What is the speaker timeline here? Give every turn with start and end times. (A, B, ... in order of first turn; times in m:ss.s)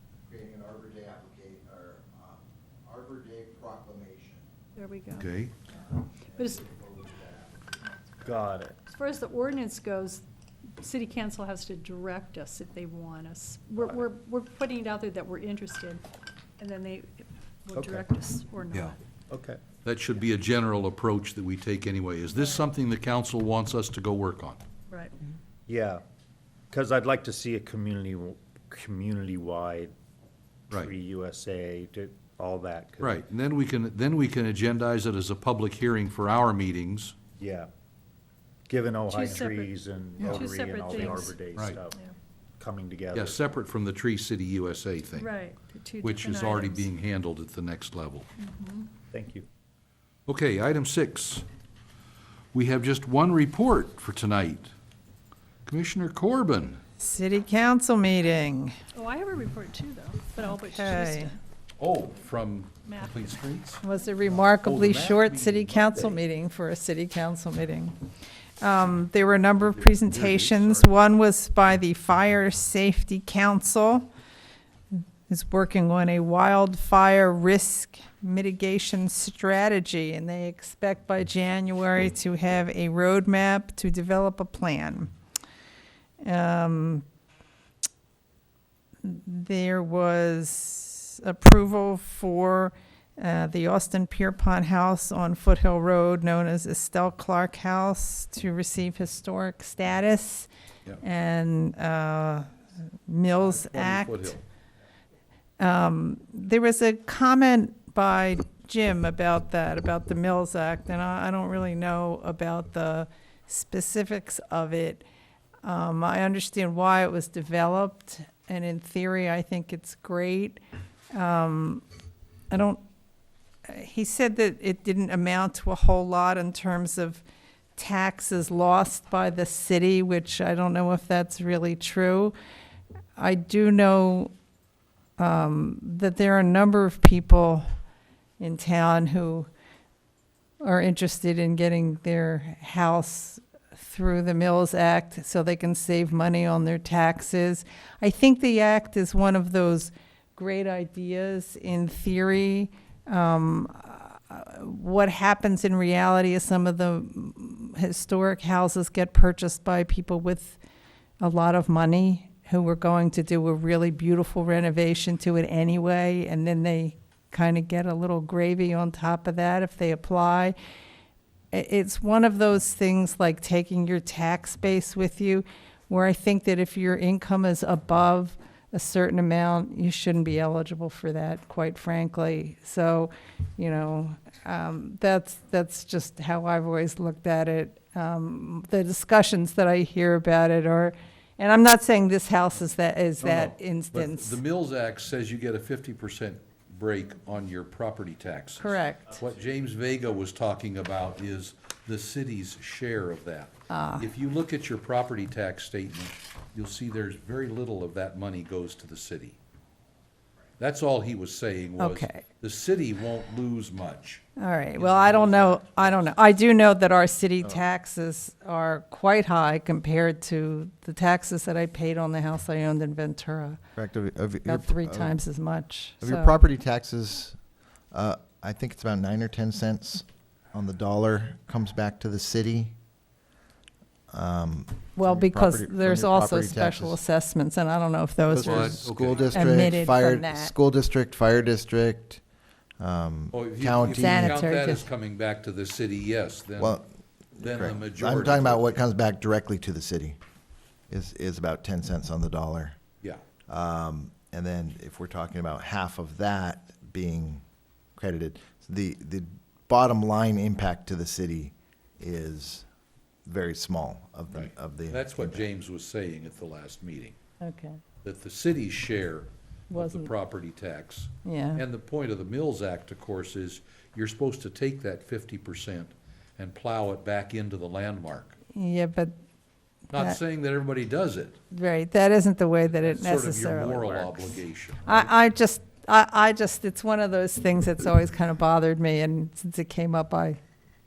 0:00.2-0:04.5 A
0:04.8-0:05.3 B
0:05.2-0:05.5 C
0:05.7-0:08.4 A
0:06.4-0:06.6 B
0:08.2-0:08.8 D
0:08.8-0:10.2 B
0:10.8-0:16.0 B
0:16.6-0:19.0 B
0:17.7-0:18.1 D
0:19.3-0:19.6 D
0:19.8-0:24.6 C
0:22.4-0:22.6 B
0:24.9-0:25.1 B
0:25.7-0:26.0 D
0:26.7-0:29.9 D
0:30.7-0:33.2 D
0:33.0-0:37.1 C
0:37.4-0:37.7 D
0:38.7-0:42.0 D
0:39.1-0:41.4 B
0:40.2-0:40.4 C
0:41.0-0:41.8 C
0:42.6-0:43.4 D
0:43.1-0:45.3 C
0:45.2-0:46.9 B
0:46.0-0:48.3 C
0:48.4-0:48.9 B
0:49.1-0:49.4 D
0:50.3-0:51.4 C
0:52.5-0:54.7 C
0:55.6-0:56.8 C
0:57.0-0:58.8 E
0:58.9-1:01.4 B
1:00.4-1:01.3 E
1:01.8-1:06.2 C
1:02.8-1:03.3 B
1:03.8-1:08.0 E
1:08.6-1:14.1 E
1:09.6-1:10.9 C
1:14.9-1:25.1 E
1:26.2-1:27.0 E
1:29.0-1:40.5 E
1:41.0-1:42.5 E
1:43.1-1:44.3 E
1:43.4-1:44.4 C
1:45.6-1:55.0 E
1:55.6-2:00.6 E
2:01.1-2:01.8 E
2:02.5-2:02.8 E
2:03.6-2:07.2 E
2:07.8-2:12.3 E
2:13.2-2:14.3 E
2:15.2-2:17.6 E
2:18.4-2:19.5 E
2:20.6-2:40.6 E
2:41.2-2:50.5 E
2:51.5-3:14.4 E
3:13.2-3:29.4 C
3:18.6-3:19.1 E
3:23.7-3:24.1 E
3:30.6-3:34.2 C
3:31.8-3:32.2 E
3:34.4-3:43.6 E
3:34.8-3:36.1 C
3:43.8-3:45.1 A
3:44.4-3:46.4 E
3:46.0-3:47.4 A
3:47.9-3:52.7 A
3:54.1-3:57.0 A
3:55.0-4:00.5 E
3:58.3-4:02.2 A
3:58.4-3:59.5 C
4:02.8-4:04.4 A
4:03.3-4:06.8 C
4:03.9-4:04.9 E
4:06.6-4:10.2 A
4:07.4-4:08.8 C
4:10.9-4:12.8 A
4:13.5-4:17.4 A
4:18.0-4:22.6 A
4:23.2-4:25.5 A
4:24.3-4:27.2 C
4:27.4-4:27.8 E
4:28.0-4:38.3 C
4:29.7-4:30.1 E
4:31.2-4:31.6 E
4:38.5-4:39.1 E
4:39.9-4:40.2 E
4:39.9-4:41.4 C
4:41.5-4:50.4 E
4:42.7-4:45.1 C